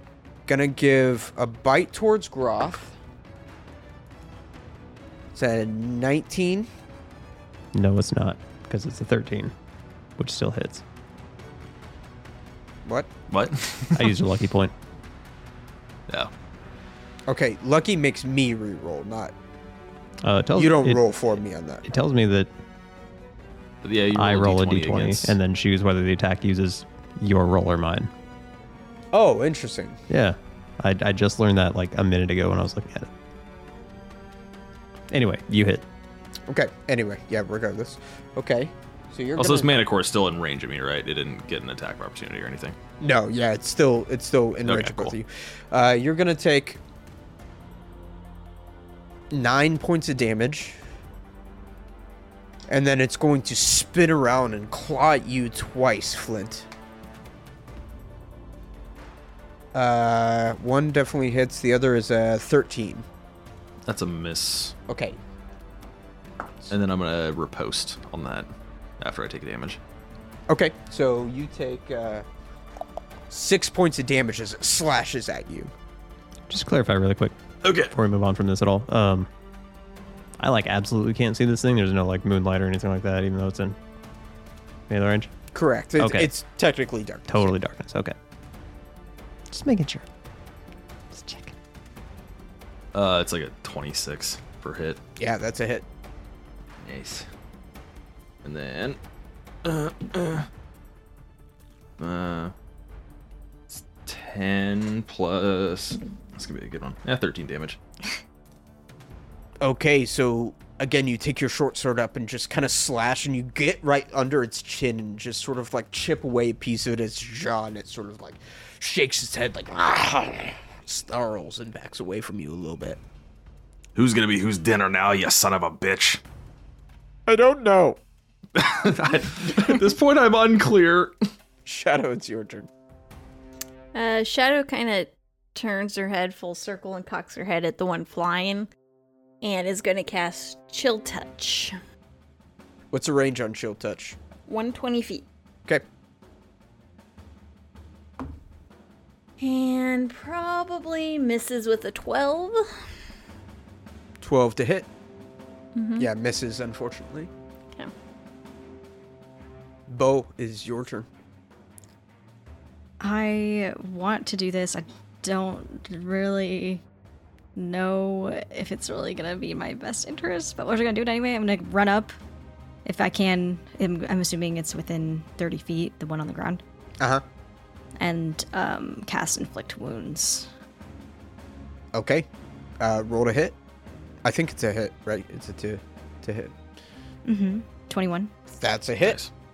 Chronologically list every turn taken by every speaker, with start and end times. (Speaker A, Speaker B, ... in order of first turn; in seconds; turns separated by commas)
Speaker A: 0.5-3.0, Speaker A: 5.3-6.7, Speaker B: 7.7-9.5, Speaker B: 10.2-10.8, Speaker C: 13.3-14.1, Speaker B: 13.9-14.7, Speaker A: 17.3-19.3, Speaker B: 20.2-21.1, Speaker A: 20.6-21.9, Speaker B: 21.9-22.5, Speaker C: 23.8-25.4, Speaker B: 24.1-28.1, Speaker A: 29.1-30.0, Speaker B: 30.1-33.1, Speaker B: 35.1-35.8, Speaker A: 36.5-39.8, Speaker C: 39.4-42.8, Speaker A: 43.0-46.8, Speaker C: 44.6-45.1, Speaker A: 49.3-50.8, Speaker A: 52.7-56.7, Speaker A: 59.7-63.1, Speaker C: 63.9-64.8, Speaker A: 64.9-65.2, Speaker C: 66.7-68.5, Speaker C: 69.0-69.8, Speaker A: 70.5-72.3, Speaker A: 73.3-75.7, Speaker B: 76.5-77.3, Speaker C: 77.6-77.9, Speaker B: 77.9-79.3, Speaker B: 80.4-83.8, Speaker B: 84.9-85.3, Speaker A: 85.5-87.5, Speaker B: 86.0-86.3, Speaker B: 87.3-88.2, Speaker B: 89.5-90.1, Speaker B: 91.1-91.5, Speaker C: 92.9-95.0, Speaker A: 95.2-95.8, Speaker C: 96.8-97.3, Speaker C: 98.4-99.0, Speaker C: 99.6-100.5, Speaker C: 102.0-102.5, Speaker C: 103.7-107.8, Speaker A: 109.6-123.0, Speaker C: 124.0-126.2, Speaker A: 127.3-128.0, Speaker C: 128.6-131.1, Speaker A: 131.7-132.7, Speaker D: 133.9-138.7, Speaker D: 139.4-141.8, Speaker A: 142.9-144.2, Speaker D: 144.5-145.3, Speaker D: 149.4-152.6, Speaker A: 154.2-154.9, Speaker D: 155.8-156.1, Speaker A: 156.0-157.3, Speaker A: 159.9-161.1, Speaker E: 163.0-166.8, Speaker E: 167.6-172.2, Speaker E: 172.9-176.6, Speaker E: 178.0-180.5, Speaker A: 181.9-182.3, Speaker A: 182.8-183.6, Speaker A: 184.2-186.5, Speaker E: 187.2-188.3, Speaker A: 188.6-189.2, Speaker C: 189.0-189.3